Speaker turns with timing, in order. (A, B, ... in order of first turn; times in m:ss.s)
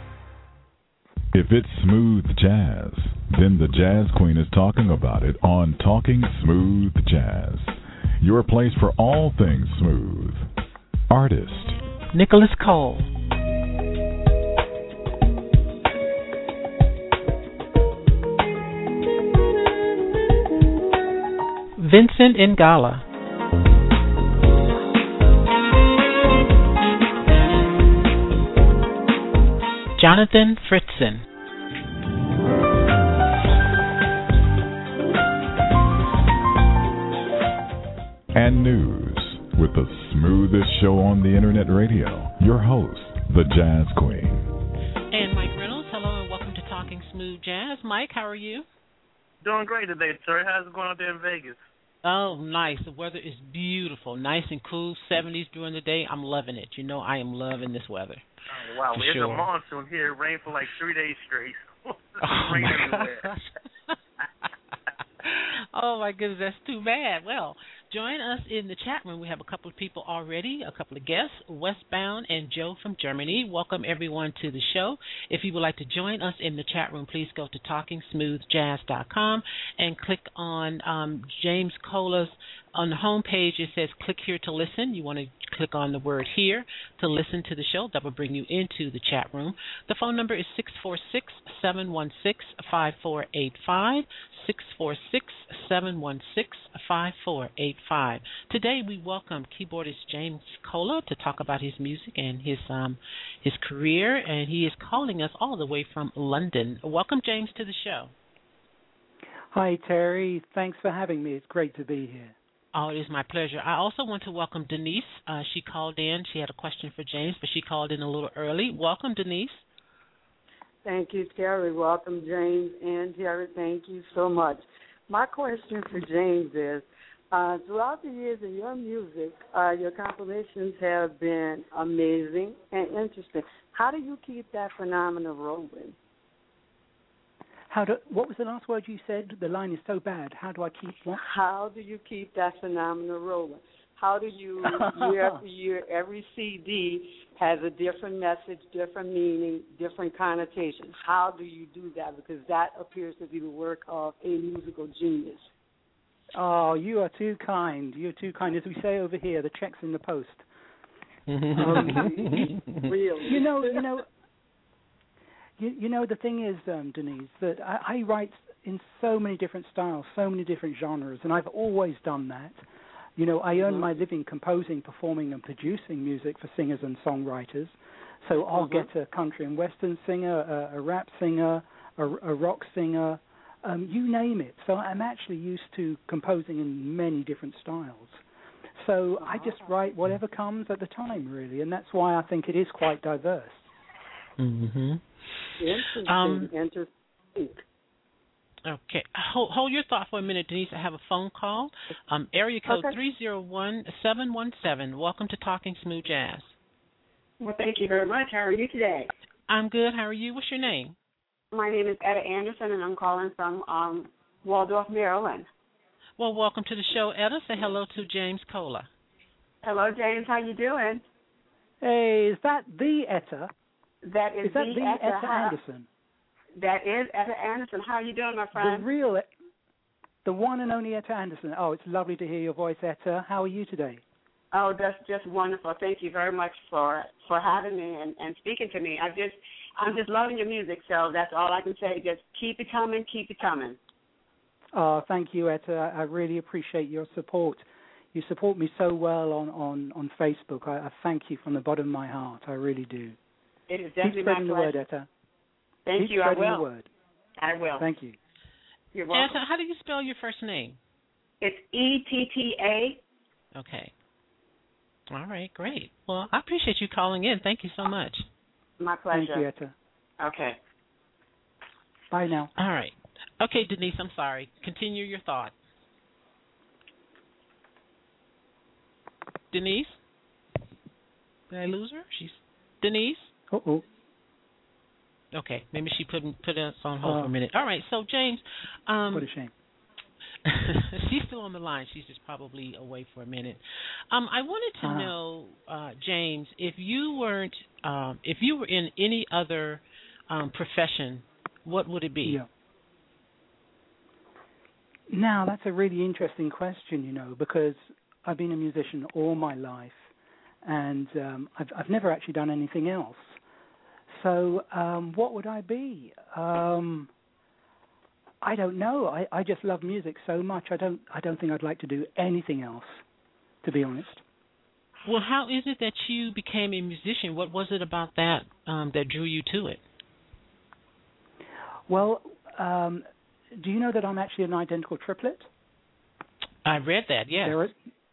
0:01.3-0:10.5 A
0:11.1-0:11.8 A
0:12.1-0:13.1 B
0:21.8-0:23.0 B
0:30.0-0:31.2 B
0:38.3-0:44.5 A
0:45.1-0:48.7 B
0:49.4-0:51.6 C
0:52.0-0:58.2 B
0:58.5-1:03.3 C
0:58.9-0:59.5 B
1:02.2-1:04.5 B
1:05.2-1:48.1 B
1:49.5-1:52.4 D
1:52.7-1:59.6 B
2:00.8-2:16.0 E
2:17.7-2:21.2 D
2:21.2-2:35.5 E
2:36.3-2:40.4 D
2:41.3-2:42.9 B
2:41.6-2:42.6 D
2:41.7-2:43.8 E
2:43.2-2:44.1 D
2:45.6-2:52.6 D
2:53.2-3:08.2 D
2:53.6-2:53.9 E
3:08.8-3:13.7 D
3:09.2-3:09.5 E
3:14.4-3:16.5 B
3:15.6-3:17.6 E
3:18.7-3:26.5 B
3:22.7-3:23.0 F
3:27.4-3:29.1 F
3:29.5-3:31.0 B
3:31.5-3:35.5 F
3:36.2-3:38.9 B
3:39.6-3:41.1 F
3:41.8-3:43.5 D
3:44.0-3:45.6 F
3:44.4-3:45.9 D
3:46.6-3:48.9 F
3:48.5-3:49.3 D
3:50.2-3:54.0 D
3:54.5-4:03.8 F
4:04.7-4:13.2 D
4:13.7-4:14.8 F
4:14.0-4:15.1 D
4:15.9-4:16.7 F
4:16.0-4:16.9 D
4:17.4-4:17.9 F
4:17.8-4:18.2 D
4:18.9-4:19.3 F
4:19.1-4:20.8 B
4:21.4-4:23.0 F
4:23.6-4:23.9 B
4:25.1-4:28.3 B
4:28.8-4:29.5 F
4:29.1-4:29.7 D
4:30.2-4:30.6 F
4:32.1-4:32.5 D
4:32.6-4:35.5 B
4:39.5-4:40.0 B
4:41.5-4:43.3 B
4:43.5-4:43.8 D
4:45.3-4:49.3 B
4:47.0-4:47.3 D
4:49.1-4:49.5 D
4:50.4-5:02.4 B
4:54.8-4:55.1 D
5:05.1-5:10.1 D
5:10.6-5:13.4 D
5:14.1-5:17.1 D
5:18.4-5:23.0 D
5:23.6-5:24.2 D
5:25.1-5:29.8 B
5:31.9-5:35.5 D
5:36.6-5:37.6 B
5:37.4-5:37.8 D